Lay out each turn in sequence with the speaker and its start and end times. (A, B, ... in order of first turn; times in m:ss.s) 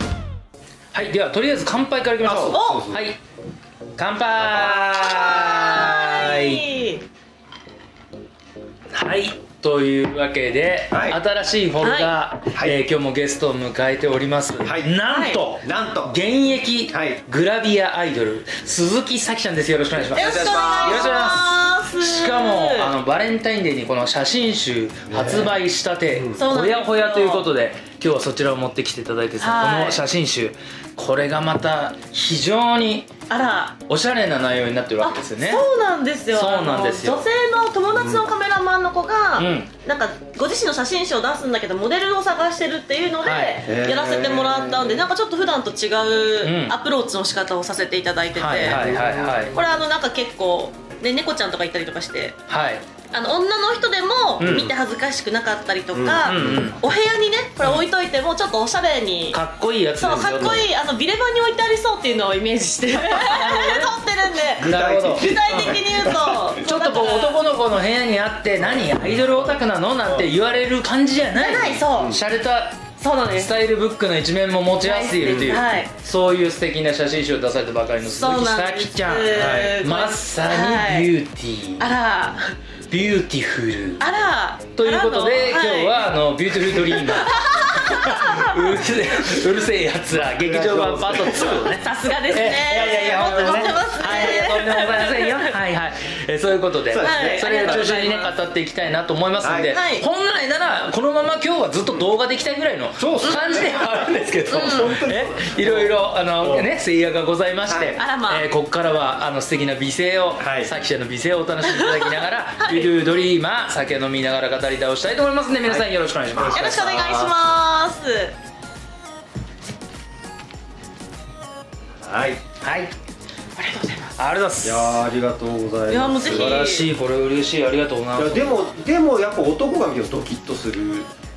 0:00.9-0:03.2 A
0:02.2-0:03.0 B
0:02.5-0:02.8 C
0:04.0-0:06.6 A
0:04.5-0:07.0 C
0:08.9-0:33.1 A
0:10.9-0:11.2 B
0:11.8-0:12.1 C
0:12.5-0:12.8 B
0:14.6-0:14.9 B
0:15.1-0:15.4 C
0:15.6-0:16.2 B
0:16.9-0:17.2 B
0:20.1-0:21.1 B
0:20.1-0:22.9 C
0:25.1-0:25.6 B
0:26.1-0:26.4 B
0:26.4-0:27.5 C
0:29.4-0:30.0 C
0:33.3-0:33.8 C
0:33.9-0:35.6 A
0:35.0-0:49.0 C
0:36.3-0:37.3 A
0:37.9-0:38.2 B
0:39.4-0:39.7 A
0:43.2-0:43.7 A
0:43.6-0:45.0 B
0:46.4-0:46.8 A
0:48.4-0:49.6 A
0:48.6-0:49.5 B
0:49.5-0:52.4 C
0:52.5-0:52.8 A
0:53.1-0:59.4 C
0:54.4-0:54.7 A
0:54.4-0:54.7 B
0:55.9-0:56.7 B
0:56.2-0:56.8 A
0:59.3-1:00.6 A
1:00.0-1:07.4 C
1:03.1-1:03.9 A
1:04.6-1:06.5 B
1:04.6-1:05.8 A
1:06.6-1:21.8 A
1:08.6-1:09.5 B
1:11.4-1:12.2 C
1:13.0-1:13.5 C
1:14.8-1:15.9 C
1:15.2-1:15.6 B
1:18.0-1:21.1 C
1:19.3-1:19.8 B
1:21.8-1:22.6 C
1:22.9-1:24.0 A
1:24.0-1:26.0 C
1:24.8-1:57.3 A
1:26.8-1:28.6 C
1:30.1-1:31.7 B
1:31.6-1:35.5 C
1:33.0-1:34.3 B
1:36.9-1:37.9 B
1:37.0-1:38.3 C
1:39.4-1:39.8 B
1:39.7-1:40.0 C
1:43.0-1:46.7 B
1:44.5-1:44.9 C
1:47.7-1:48.0 B
1:48.0-1:48.4 C
1:50.4-1:50.7 B
1:51.6-1:52.9 C
1:55.6-1:56.7 B
1:56.5-1:58.3 C
2:02.0-2:02.4 B
2:02.6-2:02.9 A
2:03.6-2:04.1 C
2:04.2-2:05.1 A
2:04.6-2:06.6 B
2:05.9-2:06.9 C
2:06.2-2:08.6 A
2:08.1-2:11.1 B